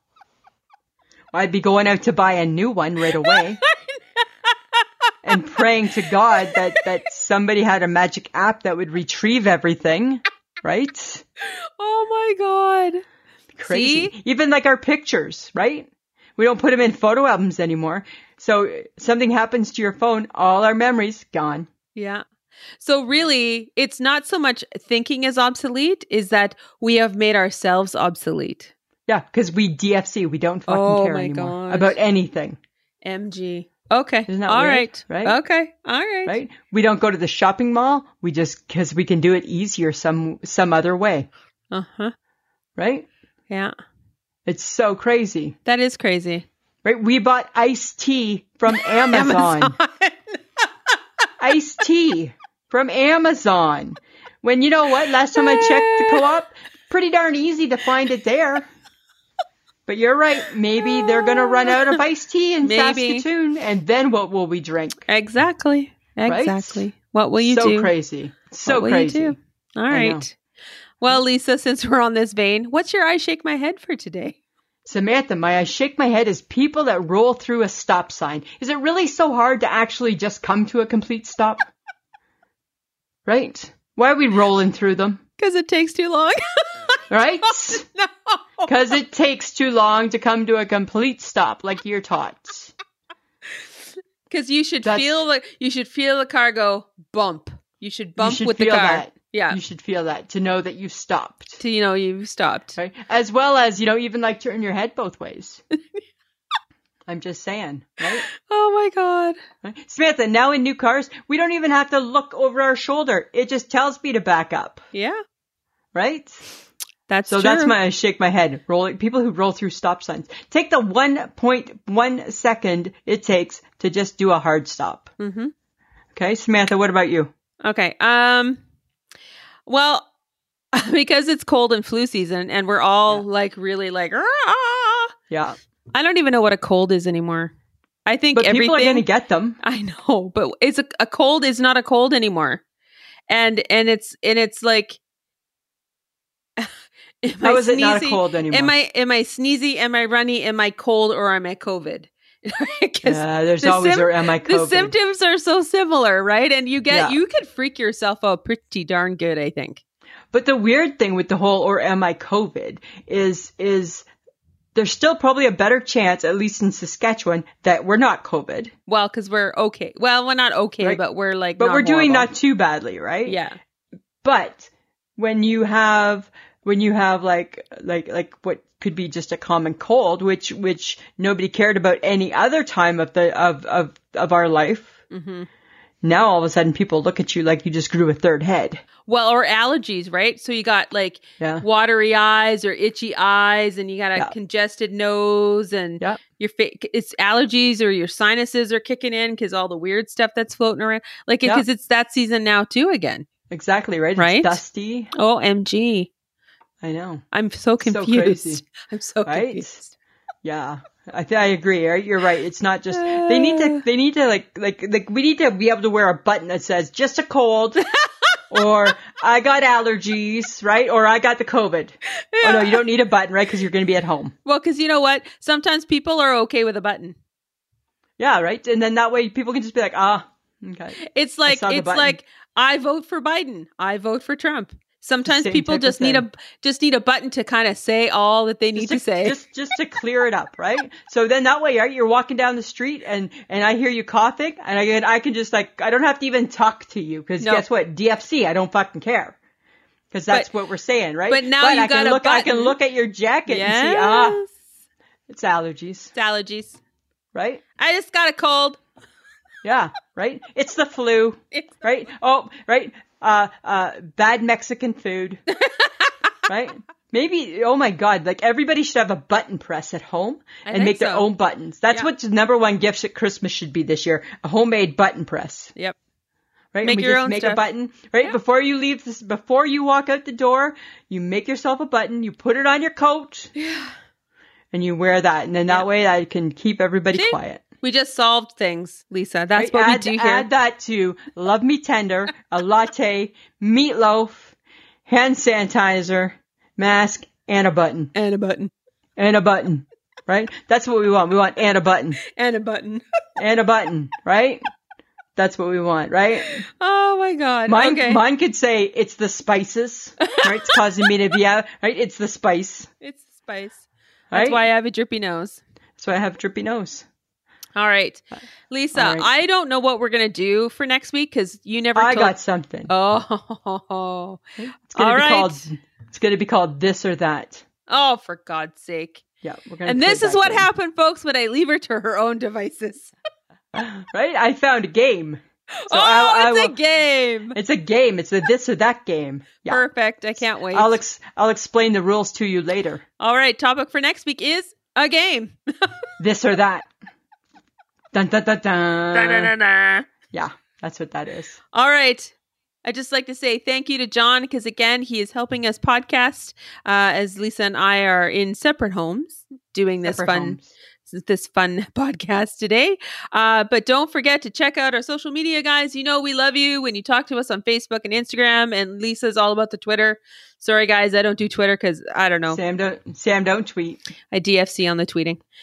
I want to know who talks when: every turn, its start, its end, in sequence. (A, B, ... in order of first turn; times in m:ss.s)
0:01.3-0:03.6 A
0:03.3-0:04.9 B
0:05.2-0:11.2 A
0:06.5-0:06.8 B
0:11.4-0:13.0 B
0:13.6-0:21.7 A
0:13.7-0:14.1 B
0:22.0-0:22.2 B
0:22.8-0:28.7 B
0:29.1-0:32.6 A
0:30.7-0:32.0 B
0:33.0-0:36.4 B
0:34.3-0:35.4 A
0:36.3-0:41.3 A
0:41.7-0:42.1 B
0:42.8-0:43.1 A
0:44.5-0:45.6 A
0:45.7-0:46.5 B
0:46.8-0:49.8 A
0:48.7-0:50.7 B
0:51.4-0:58.7 A
0:55.4-0:56.4 B
0:59.9-1:05.1 A
1:00.8-1:02.0 B
1:02.6-1:03.2 B
1:05.1-1:07.9 B
1:06.3-1:06.8 A
1:07.4-1:09.4 A
1:08.7-1:10.3 B
1:09.9-1:10.2 A
1:11.0-1:14.4 B
1:14.9-1:21.7 A
1:23.3-1:25.2 A
1:25.4-1:28.7 B
1:27.1-1:27.8 A
1:28.7-1:32.7 A
1:34.3-1:39.6 B
1:34.8-1:35.2 A
1:38.2-1:41.6 A
1:41.6-1:42.8 B
1:42.8-1:45.6 A
1:47.1-1:48.3 A
1:48.1-1:49.4 B
1:49.6-1:54.8 A
1:54.9-1:55.2 B
1:55.9-1:56.4 A
1:57.1-1:57.8 B
1:57.3-2:05.1 A
2:05.2-2:05.5 B
2:06.2-2:07.3 A
2:07.6-2:08.6 B
2:09.7-2:10.1 B
2:10.7-2:15.2 B
2:15.3-2:15.6 A
2:15.9-2:17.5 B
2:18.1-2:19.0 B
2:18.3-2:19.6 A
2:19.6-2:22.6 B
2:23.3-2:25.0 B
2:27.2-2:39.8 B
2:27.4-2:28.7 A
2:33.0-2:34.9 A
2:36.9-2:37.2 A
2:40.3-2:44.1 A
2:44.8-2:48.7 A
2:48.9-2:52.3 B
2:51.6-2:53.4 A
2:53.3-2:53.6 B
2:54.2-3:05.0 A
3:05.1-3:05.5 B
3:06.0-3:08.8 A
3:09.1-3:23.3 B
3:11.4-3:11.7 A
3:23.5-3:25.1 A
3:24.2-3:24.6 B
3:25.1-3:26.1 B
3:26.8-3:27.2 A
3:27.3-3:29.9 B
3:27.8-3:28.7 A
3:29.2-3:29.8 A
3:30.4-3:37.8 A
3:32.9-3:33.8 B
3:38.0-3:38.4 B
3:38.5-3:44.4 A
3:42.3-3:42.8 B
3:44.4-3:47.2 B
3:48.2-3:52.2 A
3:51.0-3:59.4 B
3:55.2-3:56.3 A
3:58.8-4:09.4 A
4:10.1-4:14.4 A
4:11.3-4:12.8 B
4:13.5-4:14.5 B
4:15.3-4:16.1 A
4:16.2-4:16.8 B
4:17.4-4:17.6 A
4:17.8-4:18.8 B
4:19.6-4:25.4 A
4:25.5-4:26.3 B
4:26.5-4:35.7 A
4:30.7-4:31.3 B
4:36.7-4:43.5 A
4:36.8-4:37.6 B
4:43.6-4:44.0 B
4:44.7-4:47.6 A
4:47.1-4:50.5 B
4:49.6-4:54.5 A
4:55.1-4:58.1 A
4:58.2-4:58.7 B
4:59.2-5:02.2 A
5:02.2-5:03.0 B
5:03.4-5:04.7 A
5:05.4-5:06.7 A
5:06.6-5:08.2 B
5:07.7-5:12.9 A
5:10.2-5:10.8 B
5:13.0-5:15.6 B
5:14.3-5:14.6 A
5:16.0-5:17.0 A
5:17.8-5:22.3 B
5:18.9-5:19.3 A
5:22.0-5:22.9 A
5:22.9-5:24.4 B
5:24.6-5:27.6 A
5:25.0-5:25.7 B
5:27.9-5:29.2 B
5:29.4-5:30.7 A
5:29.9-5:33.1 B
5:33.7-5:36.8 A
5:35.8-5:37.6 B
5:37.5-5:39.8 A
5:39.7-5:41.0 B
5:40.7-5:43.0 A
5:43.2-5:46.1 B
5:46.2-5:46.9 A
5:48.1-5:49.5 A
5:49.1-5:50.1 B
5:50.3-5:51.6 A
5:51.7-5:52.3 B
5:52.8-6:12.6 B
6:00.0-6:00.7 A
6:12.5-6:14.0 A
6:14.3-6:15.4 B